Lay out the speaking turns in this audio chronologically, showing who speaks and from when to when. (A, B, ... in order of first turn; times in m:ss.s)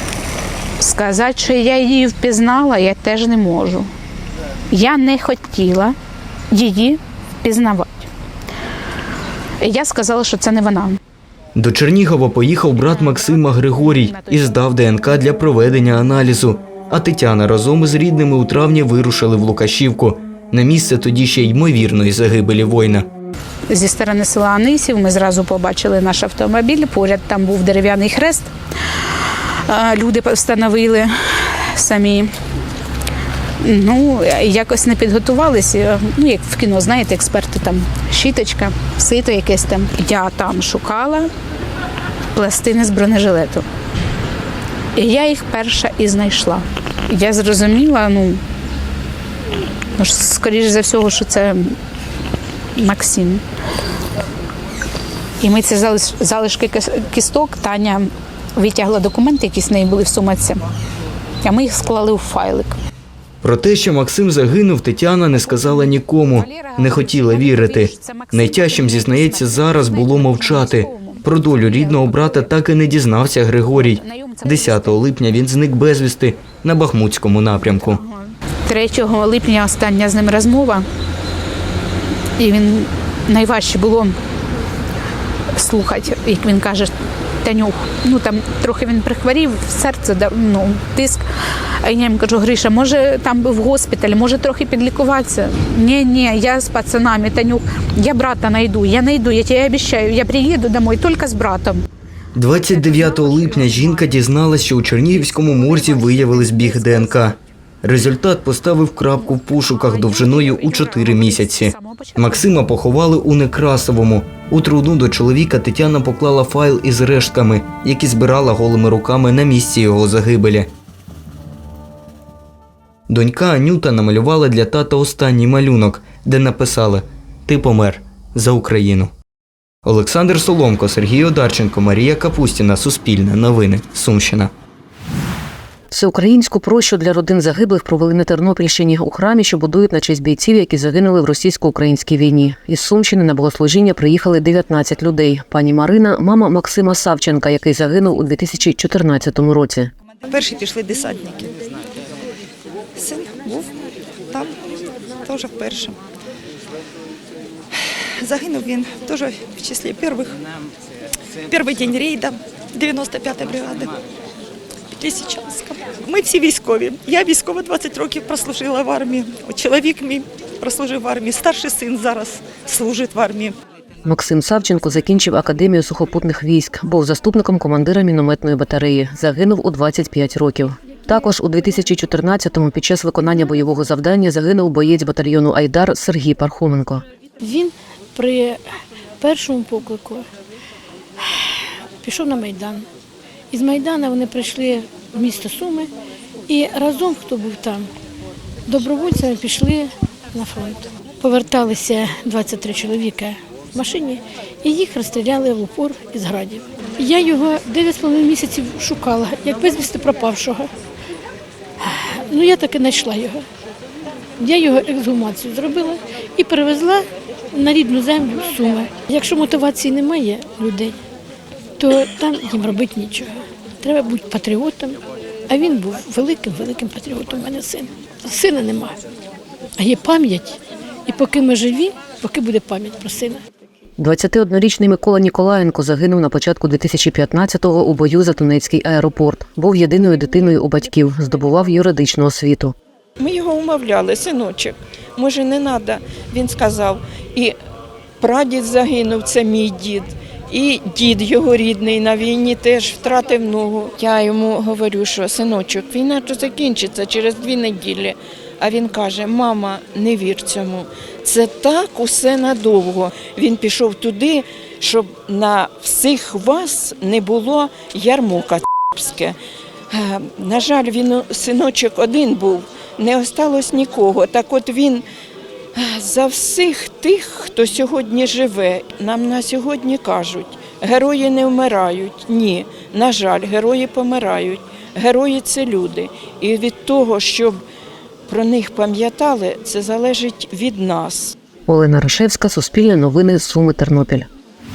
0:00.8-0:03.9 A
0:04.7-0:06.0 A
0:06.5-0:08.1 A
0:09.6-0:11.0 A
0:11.6-0:23.1 B
0:13.7-0:14.6 A
0:23.7-0:28.5 A
0:29.6-0:31.1 A
0:31.7-0:32.3 A
0:33.6-0:41.3 A
0:42.3-0:43.6 A
0:45.0-0:48.4 A
0:50.0-0:51.8 A
0:52.8-0:53.4 A
0:55.4-1:00.6 A
1:01.4-1:02.7 A
1:03.4-1:18.0 B
1:05.4-1:12.5 A
1:13.7-1:15.0 A
1:17.7-1:20.8 A
1:22.4-1:24.2 A
1:25.5-1:26.9 A
1:27.4-1:31.2 A
1:31.8-1:41.8 A
1:42.4-2:00.7 B
1:45.6-1:47.2 A
1:49.7-1:52.5 A
2:03.1-2:09.1 B
2:09.8-2:14.5 B
2:15.9-2:29.9 C
2:30.3-2:31.6 D
2:32.9-2:36.0 D
2:38.2-2:40.4 D
2:41.5-2:44.0 D
2:44.9-2:53.6 D
2:54.0-3:07.0 C
3:07.4-3:08.6 E
3:09.2-3:10.3 E
3:12.0-3:12.8 E
3:13.5-3:15.9 E
3:16.5-3:17.9 E
3:18.7-3:30.7 E
3:32.2-3:33.4 E
3:34.4-3:41.0 E
3:41.8-3:49.0 E
3:49.8-3:53.4 E
3:54.0-4:02.7 C
4:03.2-4:07.6 F
4:08.2-4:29.4 F
4:29.9-4:35.0 F
4:35.7-4:47.6 F
4:48.3-4:51.4 F
4:51.7-4:54.3 C